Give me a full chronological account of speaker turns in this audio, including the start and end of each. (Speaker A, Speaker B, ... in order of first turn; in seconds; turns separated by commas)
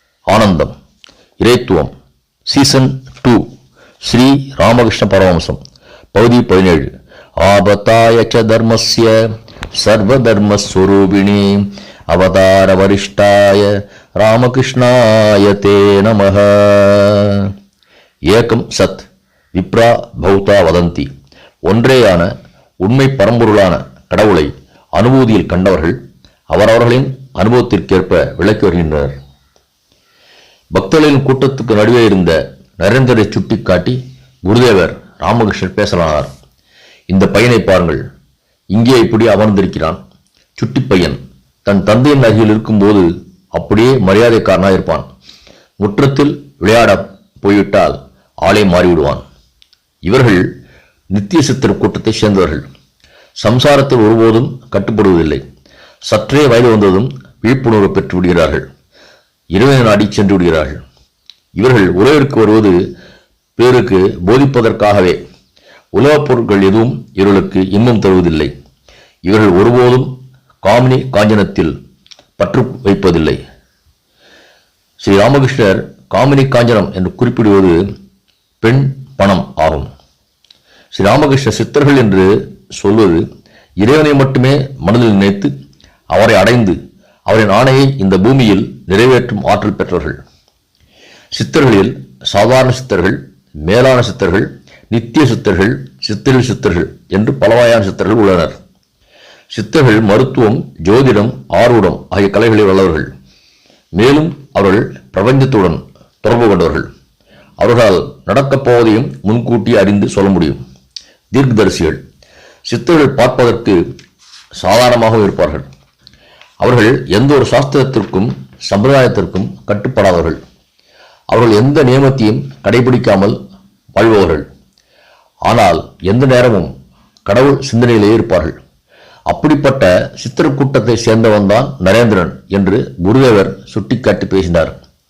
Speaker A: 0.3-0.7, Speaker A: 1.4-1.9, Speaker A: 2.5-3.4, Speaker A: 4.0-5.6, Speaker A: 6.1-9.1, Speaker A: 9.7-17.5, Speaker A: 18.3-21.1, Speaker A: 21.6-22.3, Speaker A: 22.8-26.0, Speaker A: 26.5-29.1, Speaker A: 30.7-36.3, Speaker A: 37.1-38.0, Speaker A: 38.7-40.0, Speaker A: 40.6-45.0, Speaker A: 45.8-49.2, Speaker A: 50.0-50.5, Speaker A: 51.1-52.7, Speaker A: 53.4-55.4, Speaker A: 56.1-58.6, Speaker A: 59.5-60.8, Speaker A: 61.6-62.8, Speaker A: 63.6-65.2, Speaker A: 65.9-68.5, Speaker A: 69.2-70.1, Speaker A: 70.6-71.7, Speaker A: 72.4-73.4, Speaker A: 75.0-77.8, Speaker A: 78.6-79.9, Speaker A: 80.9-83.2, Speaker A: 83.8-85.5, Speaker A: 86.1-86.8, Speaker A: 87.3-90.2, Speaker A: 91.3-98.6, Speaker A: 99.5-103.1, Speaker A: 104.0-106.9, Speaker A: 107.6-110.6, Speaker A: 111.3-112.0, Speaker A: 112.7-113.8, Speaker A: 114.6-115.7, Speaker A: 116.6-120.4, Speaker A: 121.3-123.3, Speaker A: 123.9-124.4, Speaker A: 125.5-126.7, Speaker A: 127.2-128.6, Speaker A: 129.3-134.7